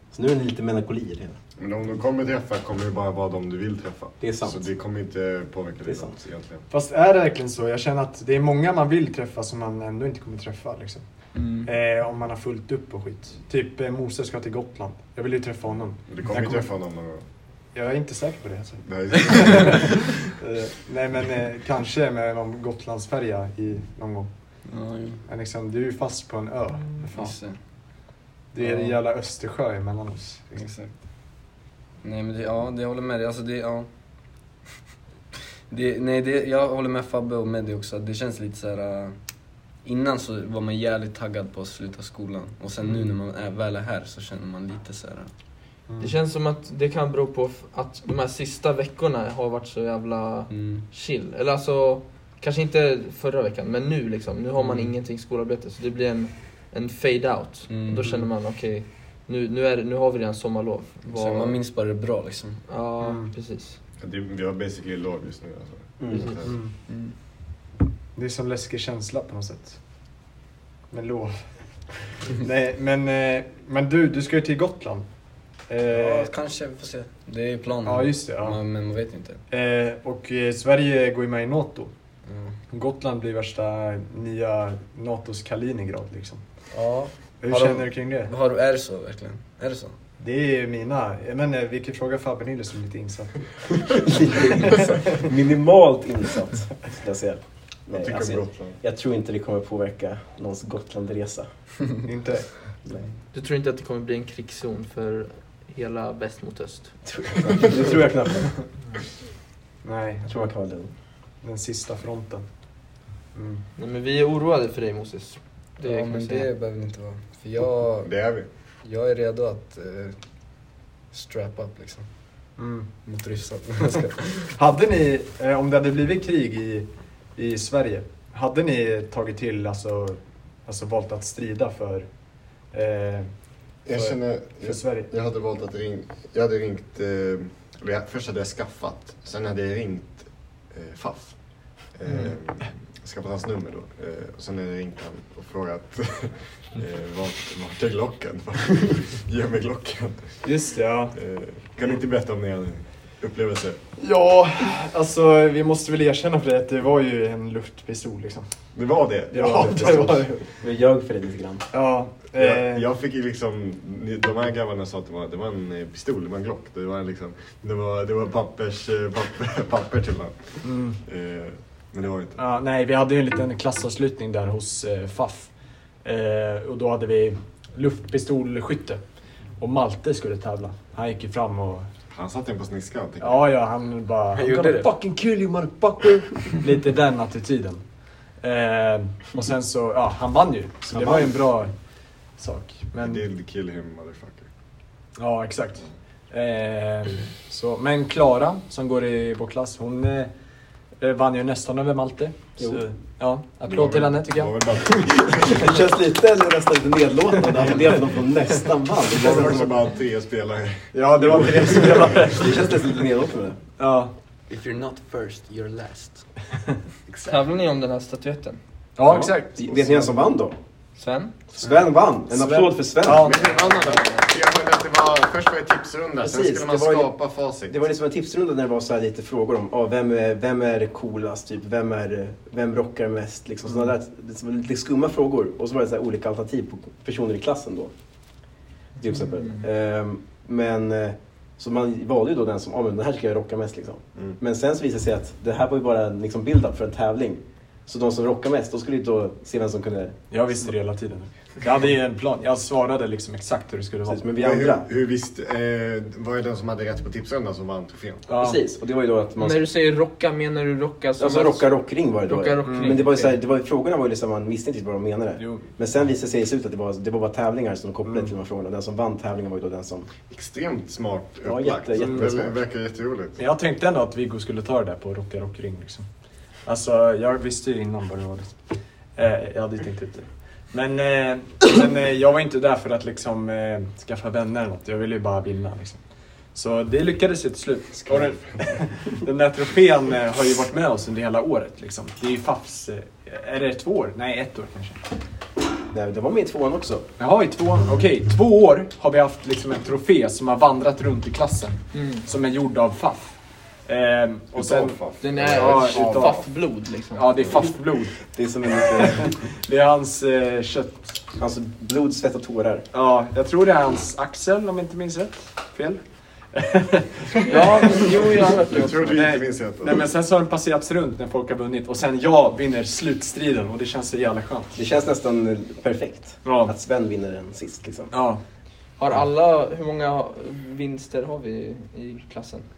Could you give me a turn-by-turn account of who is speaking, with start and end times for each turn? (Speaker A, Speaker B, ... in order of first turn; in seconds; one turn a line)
Speaker A: 0.1-1.4
Speaker B: 1.6-6.6
Speaker A: 4.2-4.7
Speaker A: 5.8-6.2
Speaker C: 6.7-16.7
Speaker B: 16.1-17.2
Speaker C: 17.7-27.9
Speaker B: 18.8-19.9
Speaker D: 24.6-25.2
Speaker D: 27.0-28.0
Speaker C: 28.5-30.5
Speaker D: 28.6-29.0
Speaker D: 30.5-31.0
Speaker D: 32.0-34.5
Speaker D: 35.7-45.4
Speaker C: 45.9-46.1
Speaker E: 46.0-61.6
Speaker D: 50.5-50.8
Speaker D: 57.7-58.1
Speaker D: 61.0-62.7
Speaker E: 62.7-63.8
Speaker C: 63.0-63.3
Speaker B: 64.0-66.6
Speaker A: 66.0-66.5
Speaker C: 66.4-66.7
Speaker D: 66.8-67.1
Speaker C: 68.1-70.0
Speaker C: 70.9-76.3
Speaker D: 75.9-79.4
Speaker C: 77.8-78.6
Speaker C: 79.5-81.9
Speaker D: 82.2-82.6
Speaker C: 82.7-88.3
Speaker D: 86.7-90.0
Speaker C: 90.2-94.1
Speaker A: 94.2-101.7
Speaker B: 97.8-98.8
Speaker C: 102.0-103.0
Speaker E: 103.3-107.2
Speaker A: 107.0-108.6
Speaker C: 109.8-110.3
Speaker A: 110.2-110.9
Speaker C: 111.4-113.6
Speaker E: 113.8-116.5
Speaker D: 115.8-118.1
Speaker B: 118.0-118.5
Speaker D: 118.8-124.5
Speaker C: 122.6-123.1
Speaker C: 123.8-135.1
Speaker B: 133.8-153.8
Speaker E: 142.1-142.3
Speaker C: 150.4-151.2
Speaker C: 154.0-160.4
Speaker B: 158.7-160.4
Speaker A: 159.6-161.7
Speaker C: 161.7-162.8
Speaker B: 162.3-172.4
Speaker C: 170.6-171.0
Speaker C: 172.3-181.9
Speaker B: 182.1-183.5
Speaker C: 183.2-193.2
Speaker A: 184.3-184.8
Speaker A: 190.9-191.3
Speaker B: 192.9-194.5
Speaker C: 195.1-205.1
Speaker A: 202.6-203.3
Speaker B: 203.6-205.7
Speaker A: 205.5-209.8
Speaker B: 209.1-212.3
Speaker C: 210.9-212.5
Speaker A: 212.3-213.7
Speaker C: 213.8-214.1
Speaker D: 214.5-216.4
Speaker D: 217.1-217.3
Speaker E: 217.2-218.6
Speaker C: 218.9-220.3
Speaker A: 219.1-220.9
Speaker D: 220.9-221.9
Speaker A: 221.5-223.3
Speaker C: 222.3-224.0
Speaker B: 223.2-227.8
Speaker D: 223.3-224.2
Speaker A: 226.2-250.2
Speaker B: 244.1-244.4
Speaker C: 250.3-254.2
Speaker A: 254.1-254.9
Speaker B: 254.3-258.3
Speaker C: 258.3-258.6
Speaker A: 258.3-259.7
Speaker E: 259.4-263.4
Speaker A: 261.2-270.1
Speaker C: 262.6-263.0
Speaker C: 265.4-265.6
Speaker C: 268.0-268.3
Speaker B: 270.2-273.4
Speaker A: 271.4-272.6
Speaker C: 272.0-272.4
Speaker C: 273.4-295.2
Speaker A: 295.9-297.2
Speaker C: 297.2-308.4
Speaker E: 301.9-302.2
Speaker B: 304.5-306.0
Speaker E: 305.2-307.4
Speaker A: 305.9-306.3
Speaker A: 307.5-309.4
Speaker C: 309.4-311.3
Speaker A: 311.3-312.9
Speaker C: 312.9-317.6
Speaker E: 317.4-319.2
Speaker B: 318.7-320.1
Speaker C: 319.1-324.8
Speaker A: 324.7-328.2
Speaker C: 326.4-326.7
Speaker C: 328.1-328.4
Speaker E: 329.0-332.6